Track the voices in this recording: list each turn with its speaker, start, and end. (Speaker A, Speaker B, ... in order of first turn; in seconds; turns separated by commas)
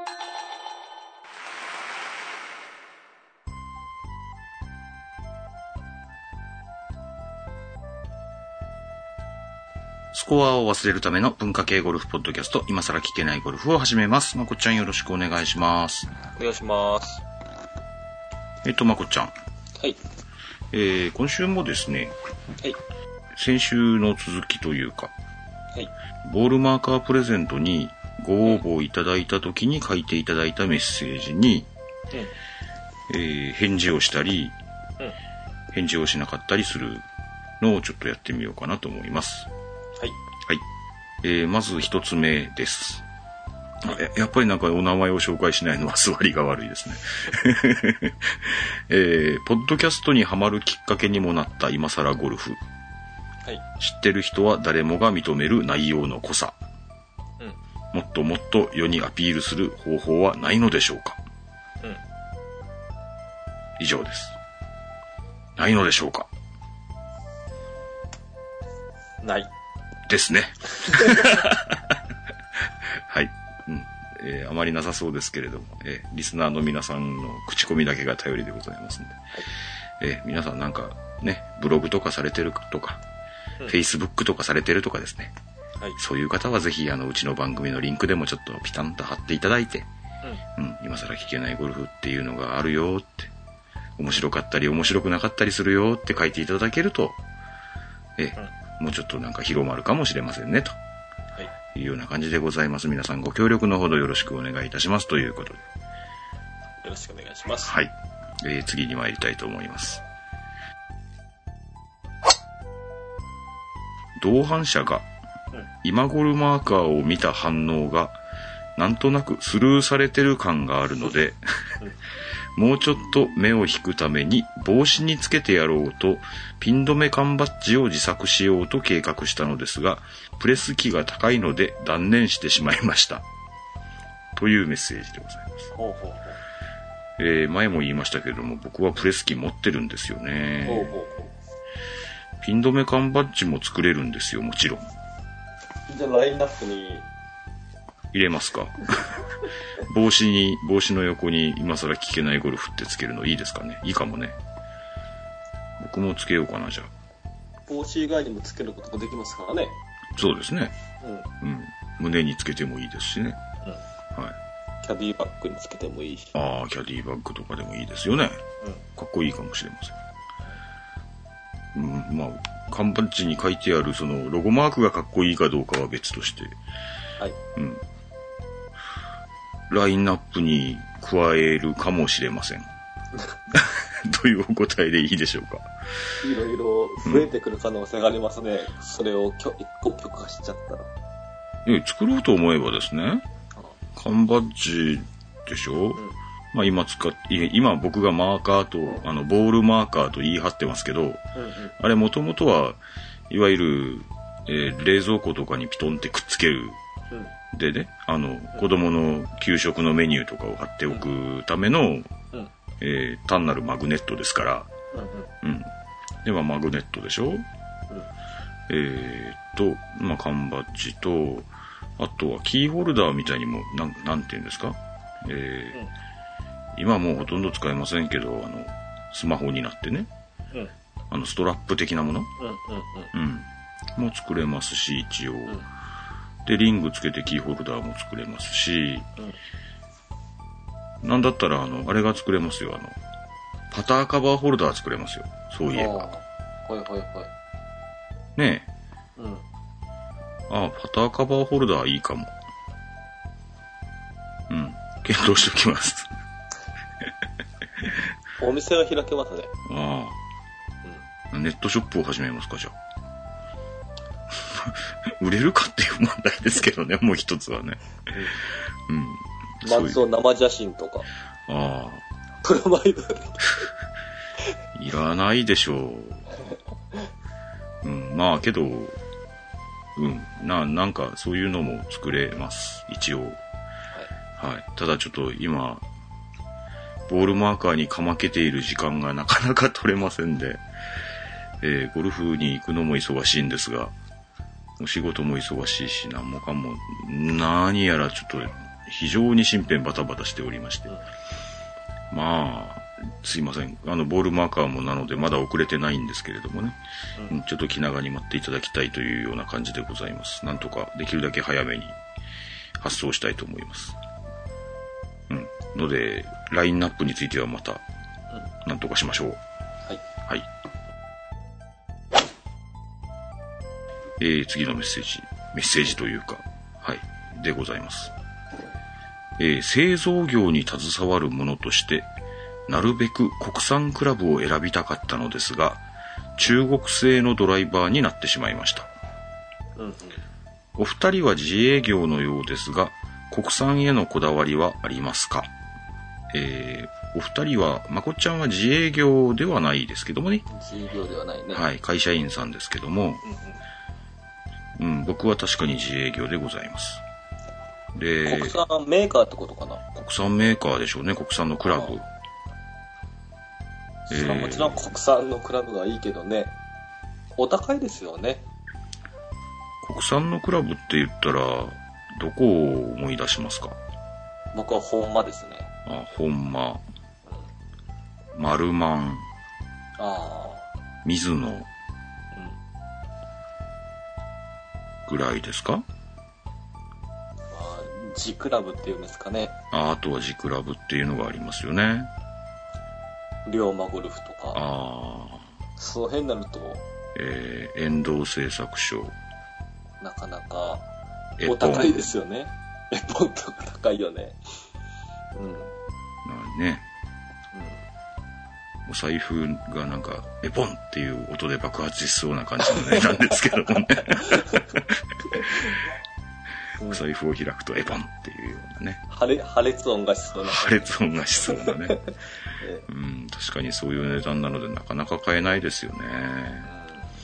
Speaker A: 10.1-16.1, Speaker B: 16.4-17.2, Speaker A: 18.6-19.3, Speaker A: 20.7-22.1, Speaker A: 23.4-25.1, Speaker A: 26.2-31.7, Speaker A: 33.1-34.6, Speaker A: 35.7-37.0, Speaker A: 37.6-39.5, Speaker A: 41.2-43.0, Speaker A: 43.8-52.6, Speaker A: 53.8-56.6, Speaker A: 57.9-61.2, Speaker A: 63.8-64.4, Speaker A: 65.6-66.3, Speaker B: 69.2-69.5, Speaker A: 70.1-72.0, Speaker B: 70.8-71.5, Speaker A: 72.9-79.2, Speaker A: 80.0-83.0, Speaker A: 83.7-85.3, Speaker A: 86.0-89.9, Speaker A: 90.6-93.3, Speaker A: 94.0-97.2, Speaker A: 98.2-100.8, Speaker A: 101.7-105.6, Speaker B: 106.8-107.8, Speaker A: 107.7-110.0, Speaker A: 114.2-115.1, Speaker A: 115.8-118.2, Speaker A: 118.8-121.8, Speaker A: 122.6-133.3, Speaker A: 134.3-135.7, Speaker B: 135.7-136.4, Speaker A: 137.2-141.0, Speaker B: 140.6-141.3, Speaker A: 142.4-144.9, Speaker B: 145.9-147.1, Speaker A: 148.1-149.2, Speaker A: 149.8-154.4, Speaker A: 155.8-156.9, Speaker B: 157.7-159.8, Speaker A: 160.2-160.8, Speaker B: 161.0-161.3, Speaker A: 161.4-163.4, Speaker B: 164.8-166.3, Speaker A: 166.3-168.4, Speaker A: 169.0-170.0, Speaker A: 171.7-176.6, Speaker A: 177.6-177.8, Speaker A: 179.7-182.7, Speaker A: 183.5-185.7, Speaker B: 186.2-190.9, Speaker A: 191.7-193.2, Speaker A: 193.9-201.2, Speaker B: 201.4-201.7, Speaker A: 201.8-206.8, Speaker A: 207.5-212.1, Speaker A: 212.8-214.7, Speaker B: 214.9-215.3, Speaker A: 215.4-215.7, Speaker A: 216.2-217.4, Speaker A: 218.7-225.8, Speaker A: 226.8-230.1, Speaker A: 231.1-232.3, Speaker B: 232.4-233.1, Speaker A: 233.1-235.7, Speaker A: 236.4-239.1, Speaker A: 241.0-243.0, Speaker A: 243.7-246.1, Speaker B: 245.7-247.3, Speaker A: 248.4-248.7, Speaker B: 249.2-249.4, Speaker A: 250.5-252.3, Speaker A: 254.5-256.1, Speaker B: 258.4-259.5, Speaker A: 259.7-260.2, Speaker A: 261.3-262.8, Speaker A: 264.4-267.8, Speaker B: 268.1-268.4, Speaker A: 268.9-270.0, Speaker B: 269.6-271.1, Speaker A: 271.5-272.0, Speaker B: 272.4-273.7, Speaker A: 274.8-276.3, Speaker A: 277.8-279.0, Speaker A: 280.0-283.4, Speaker A: 284.4-285.9, Speaker A: 287.1-290.6, Speaker A: 291.6-293.9, Speaker A: 294.8-300.9, Speaker A: 302.1-312.0, Speaker A: 312.8-314.0, Speaker A: 315.3-317.8, Speaker A: 318.6-319.4, Speaker A: 324.2-328.1, Speaker A: 329.4-332.1, Speaker A: 332.7-335.8, Speaker A: 336.4-338.9, Speaker B: 339.8-340.2, Speaker A: 340.8-345.5, Speaker A: 346.3-350.5, Speaker B: 350.5-351.6, Speaker A: 351.5-353.2, Speaker A: 354.8-357.0, Speaker A: 357.9-358.6, Speaker B: 358.3-359.8, Speaker A: 360.0-362.1, Speaker B: 364.1-366.6, Speaker A: 364.1-364.8, Speaker B: 367.4-368.4, Speaker A: 369.8-373.8, Speaker B: 374.5-375.7, Speaker A: 375.9-376.8, Speaker A: 378.3-379.3, Speaker B: 380.0-380.7, Speaker A: 381.1-381.7, Speaker B: 382.3-382.6, Speaker A: 385.1-385.9, Speaker B: 387.5-389.6, Speaker A: 389.7-392.1, Speaker B: 393.5-394.6, Speaker A: 394.5-395.4, Speaker B: 395.8-396.8, Speaker A: 397.1-399.1, Speaker B: 400.0-400.9, Speaker A: 401.4-402.1, Speaker B: 401.4-404.4, Speaker B: 405.3-405.7, Speaker A: 406.2-406.9, Speaker B: 407.5-407.8, Speaker A: 408.9-415.7, Speaker B: 412.7-413.3, Speaker B: 414.0-415.8, Speaker B: 416.8-417.0, Speaker A: 416.8-419.0, Speaker B: 419.1-420.9, Speaker A: 420.4-422.0, Speaker B: 421.5-422.9, Speaker A: 422.9-426.7, Speaker B: 426.7-427.1